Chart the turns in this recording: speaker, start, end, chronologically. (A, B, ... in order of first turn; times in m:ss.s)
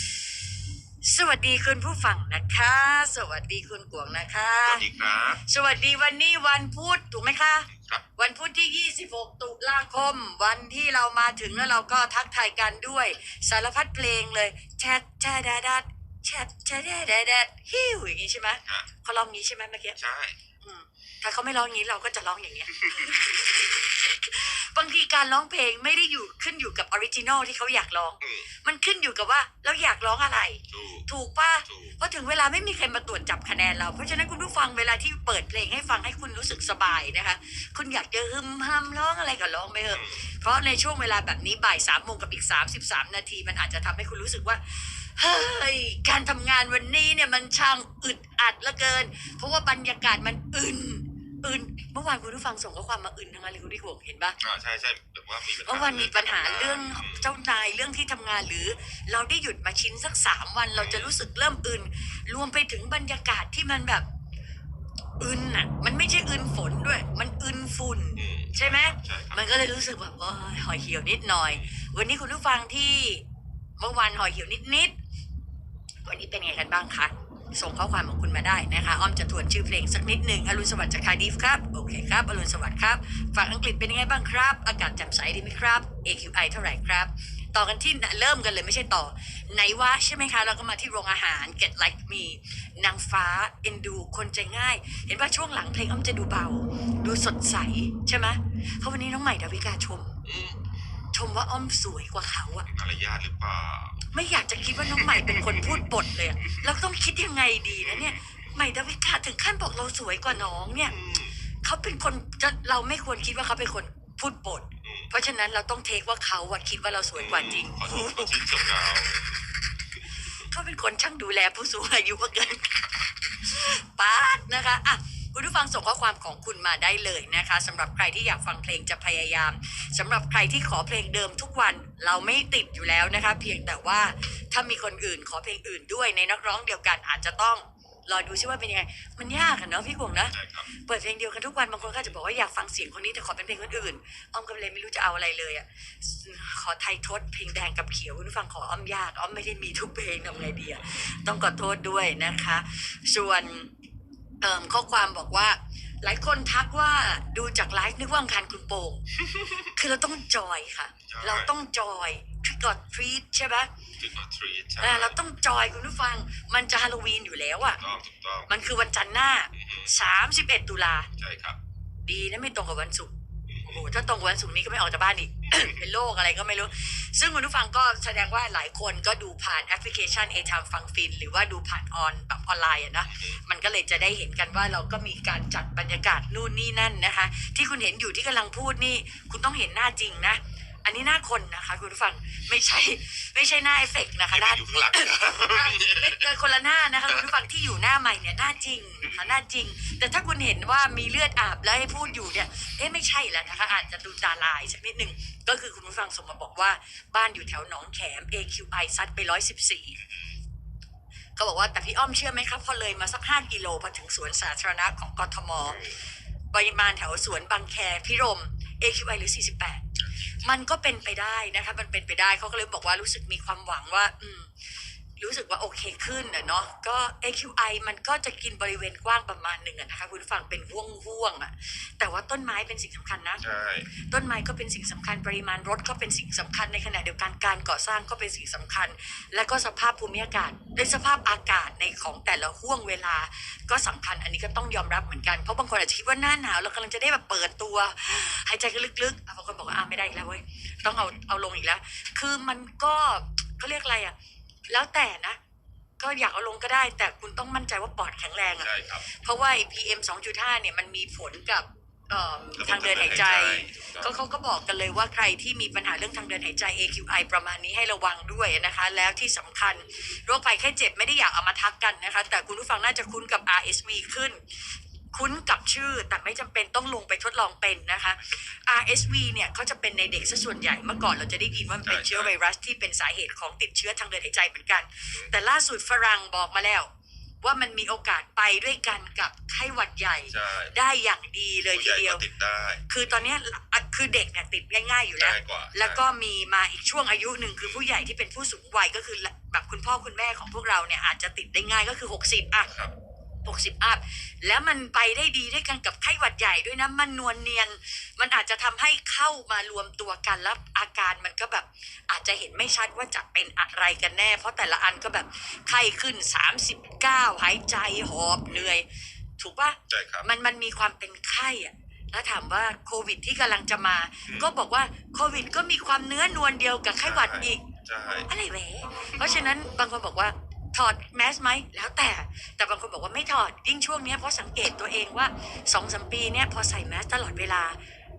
0:01.0-0:04.9 A
0:04.6-0:05.4 B
0:05.4-0:20.0 A
0:07.7-0:08.0 B
0:20.0-0:20.4 B
0:20.6-0:54.4 A
0:28.2-0:28.5 B
0:30.7-0:31.1 B
0:31.7-0:32.0 B
0:39.9-0:40.2 B
0:54.4-0:57.3 B
0:55.6-1:04.1 A
1:00.8-1:01.1 B
1:05.2-1:13.2 A
1:08.2-1:09.5 B
1:13.8-1:15.0 A
1:16.0-1:40.2 A
1:40.2-1:40.6 B
1:41.1-1:42.7 A
1:42.7-1:44.1 B
1:44.1-1:50.9 A
1:44.9-1:45.8 B
1:50.8-1:51.4 B
1:51.6-1:58.5 A
1:54.8-1:55.1 B
1:57.2-1:59.4 B
2:00.4-2:33.7 A
2:20.3-2:20.7 B
2:34.4-2:43.7 A
2:41.0-2:41.5 B
2:44.0-2:45.2 B
2:44.8-2:47.8 A
2:47.8-2:48.5 B
2:48.5-2:51.1 A
2:49.5-2:49.9 B
2:51.2-2:51.6 B
2:52.1-2:53.1 A
2:53.5-2:53.8 B
2:53.6-3:30.0 A
3:03.1-3:03.4 B
3:14.3-3:16.2 B
3:30.0-3:30.4 B
3:31.4-3:35.9 A
3:35.7-3:36.0 B
3:36.5-3:39.8 A
3:40.0-3:40.5 B
3:40.4-3:44.5 A
3:45.2-3:53.4 A
3:53.4-3:53.9 B
3:54.1-4:14.2 A
4:14.7-4:15.4 A
4:16.0-4:34.4 A
4:18.6-4:19.1 B
4:22.6-4:24.2 B
4:35.1-4:46.9 A
4:41.9-4:42.3 B
4:47.4-4:52.2 A
4:50.3-4:50.8 B
4:51.7-4:53.2 B
4:52.9-5:02.7 A
4:55.2-4:56.1 B
4:57.6-4:57.8 B
5:02.7-5:02.9 B
5:03.4-5:18.9 A
5:18.5-5:18.8 B
5:19.4-5:27.7 A
5:19.9-5:20.3 B
5:27.0-5:28.3 B
5:28.3-5:37.8 A